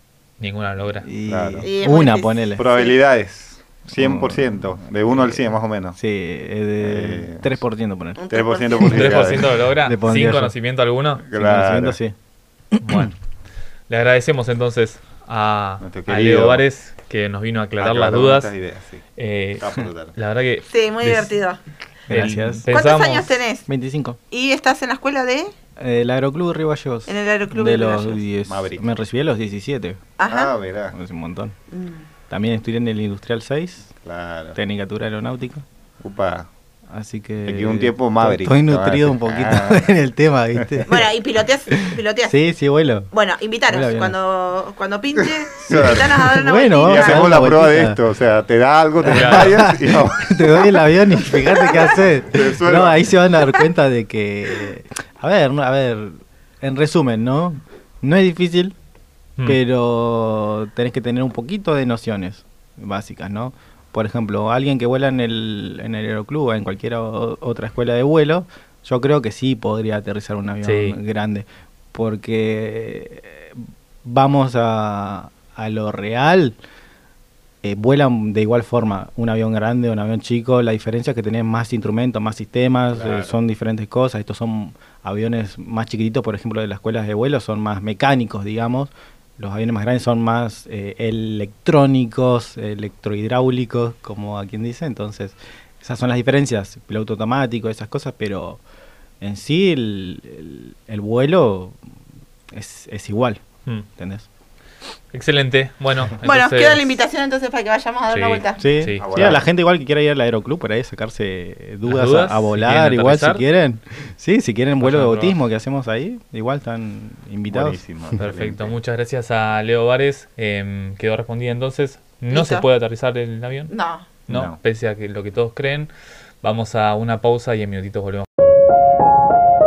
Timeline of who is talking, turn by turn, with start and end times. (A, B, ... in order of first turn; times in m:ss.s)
0:00.4-0:01.0 A
0:01.0-0:02.7 B
0:01.3-0:01.7 C
0:01.6-0:03.0 D
0:02.6-0:06.0 C
0:03.9-0:05.4 B
0:06.0-0:08.2 B
0:06.8-0:07.6 C
0:08.2-0:09.3 D
0:08.3-0:09.6 C
0:08.9-0:11.2 A
0:09.8-0:10.5 B
0:11.2-0:12.0 C
0:11.3-0:12.1 B
0:12.7-0:13.1 B
0:12.8-0:13.1 A
0:13.9-0:18.5 A
0:15.8-0:16.6 C
0:17.8-0:19.0 C
0:19.2-0:21.3 A
0:19.6-0:20.1 C
0:20.7-0:21.6 D
0:22.1-0:22.6 B
0:22.1-0:23.3 A
0:22.7-0:23.6 D
0:23.7-0:24.2 B
0:24.3-0:25.5 D
0:25.8-0:30.0 B
0:27.1-0:28.2 D
0:28.5-0:28.8 C
0:30.2-0:30.5 D
0:30.2-0:30.9 C
0:30.9-0:31.5 B
0:31.7-0:32.1 D
0:32.3-0:33.9 B
0:34.0-0:34.6 C
0:34.6-0:35.6 B
0:36.0-0:36.5 C
0:36.9-0:41.1 B
0:37.4-0:39.9 C
0:40.9-0:42.4 D
0:41.7-0:43.1 B
0:43.1-0:47.4 D
0:43.7-0:44.1 B
0:45.6-0:50.6 C
0:45.7-0:48.0 B
0:49.1-0:58.7 B
0:49.1-0:49.6 A
0:51.4-0:51.9 D
0:52.2-0:53.2 C
0:59.4-1:16.5 B
1:10.6-1:11.0 A
1:17.6-1:38.6 B
1:22.9-1:23.3 C
1:39.2-1:41.8 B
1:42.5-1:43.4 B
1:44.0-1:44.3 B
1:45.1-1:46.9 A
1:46.2-1:48.6 D
1:48.1-1:49.3 A
1:48.6-1:57.8 B
1:49.0-1:49.5 C
1:51.8-1:53.4 A
1:54.8-1:55.3 A
1:57.5-1:58.7 C
1:58.2-2:03.7 A
2:02.3-2:02.6 D
2:03.7-2:04.1 D
2:04.3-2:05.9 A
2:04.3-2:04.6 C
2:06.4-2:08.2 A